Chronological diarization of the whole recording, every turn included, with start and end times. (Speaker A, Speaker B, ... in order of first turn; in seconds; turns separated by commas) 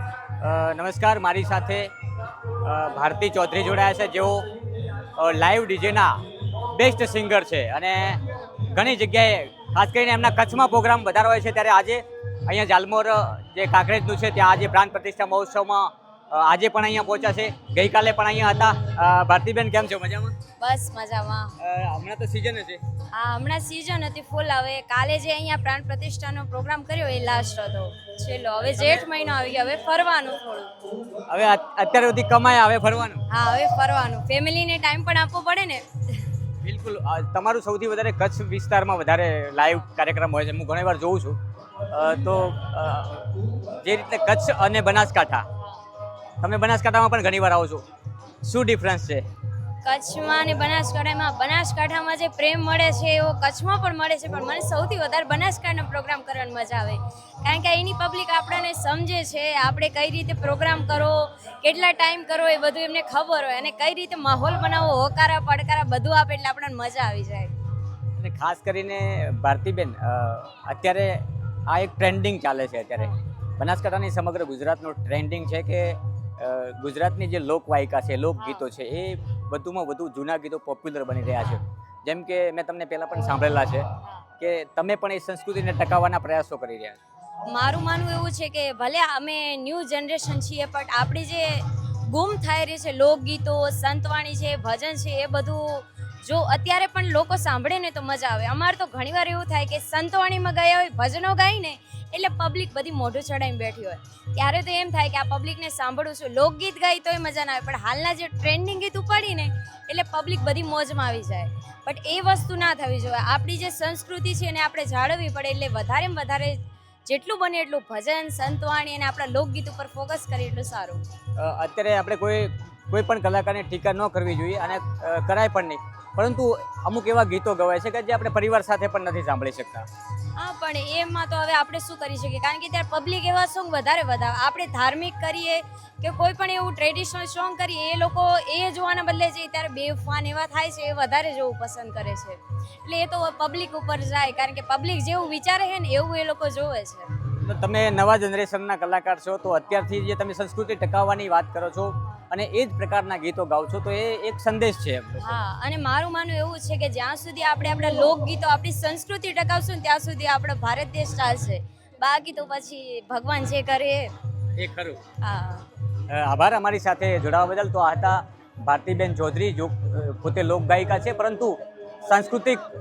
Speaker A: 0.4-1.9, Speaker A: 2.5-4.5, Speaker A: 5.2-20.4, Speaker B: 20.6-21.6, Speaker A: 21.6-22.8, Speaker B: 23.1-30.7, Speaker A: 31.3-33.2, Speaker B: 33.3-36.2, Speaker A: 36.6-45.5, Speaker A: 46.4-47.8, Speaker A: 48.4-49.3, Speaker B: 49.8-67.5, Speaker A: 68.2-83.9, Speaker B: 78.4-78.7, Speaker A: 84.4-87.0, Speaker B: 87.5-121.0, Speaker A: 121.4-129.9, Speaker B: 130.4-147.1, Speaker A: 147.4-155.4, Speaker B: 155.2-164.1, Speaker A: 164.6-165.0, Speaker B: 165.2-165.7, Speaker A: 166.1-172.6